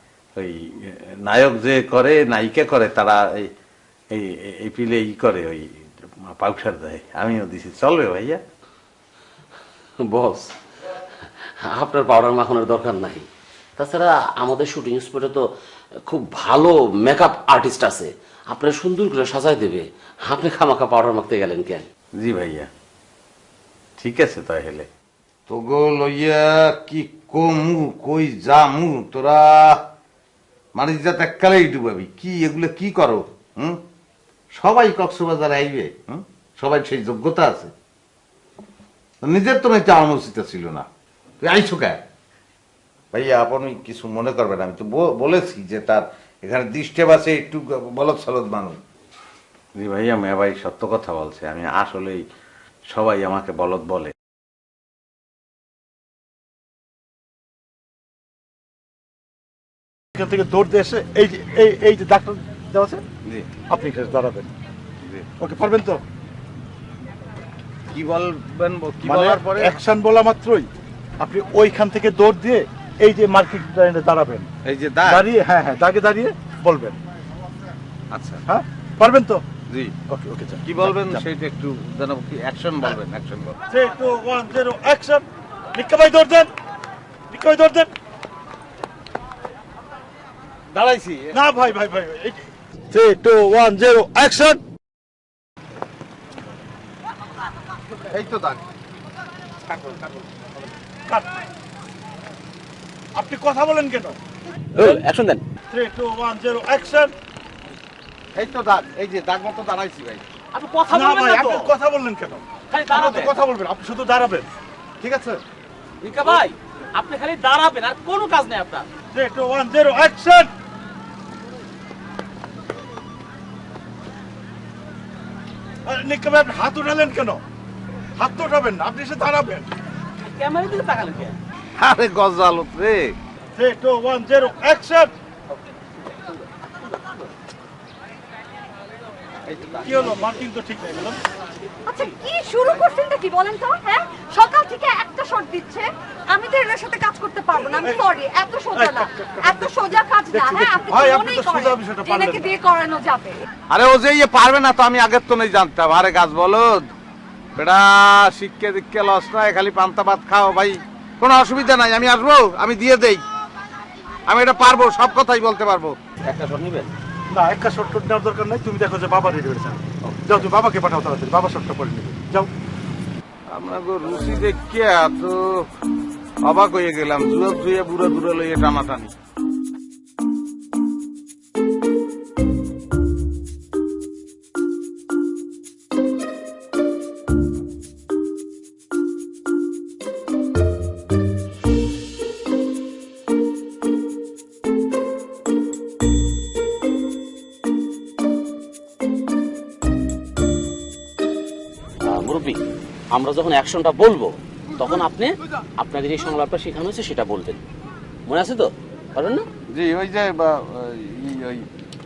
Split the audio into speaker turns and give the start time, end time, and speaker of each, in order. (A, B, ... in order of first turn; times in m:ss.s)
0:00.4-0:03.5 A
0:04.1-0:08.4 A
0:10.1-0:10.4 B
0:11.6-0:13.2 B
0:13.8-0:15.5 B
0:16.1-0:21.9 B
0:22.2-0:22.7 A
0:24.0-0:24.9 A
0:25.5-0:29.8 A
0:30.8-0:33.8 A
0:34.6-0:37.7 A
0:39.2-0:40.9 A
0:41.4-0:42.0 A
0:43.1-0:48.8 A
0:49.8-0:52.2 A
0:52.9-0:54.1 A
1:00.2-1:03.0 C
1:03.7-1:04.5 C
1:05.4-1:06.0 C
1:07.9-1:09.8 A
1:09.1-1:10.7 C
1:11.2-1:14.5 C
1:14.6-1:15.2 A
1:15.1-1:17.0 C
1:18.1-1:18.4 A
1:18.5-1:19.4 C
1:20.1-1:21.2 C
1:20.6-1:23.6 A
1:23.7-1:26.5 C
1:27.3-1:27.9 C
1:30.7-1:31.4 A
1:31.3-1:34.6 C
1:38.0-1:38.6 A
1:39.7-1:40.2 A
1:43.1-1:44.2 C
1:44.8-1:45.4 B
1:45.7-1:47.1 C
1:48.3-1:50.2 A
1:50.5-1:51.7 B
1:50.9-1:54.4 C
1:52.7-1:53.4 B
1:55.1-1:55.3 C
1:56.0-1:58.9 B
1:59.1-2:00.5 C
2:05.8-2:07.4 C
2:08.2-2:09.7 C
2:10.2-2:11.4 B
2:11.8-2:13.2 A
2:13.6-2:15.1 C
2:19.5-2:19.9 A
2:19.8-2:21.2 C
2:21.8-2:33.4 D
2:28.8-2:32.6 C
2:33.7-2:36.8 A
2:37.6-2:43.2 A
2:44.2-2:45.9 A
2:46.2-2:46.9 B
2:47.3-2:52.5 C
2:53.5-2:55.6 A
2:56.4-2:59.1 A
3:22.0-3:22.6 B
3:23.1-3:27.6 B
3:28.2-3:29.5 B
3:29.7-3:31.7 A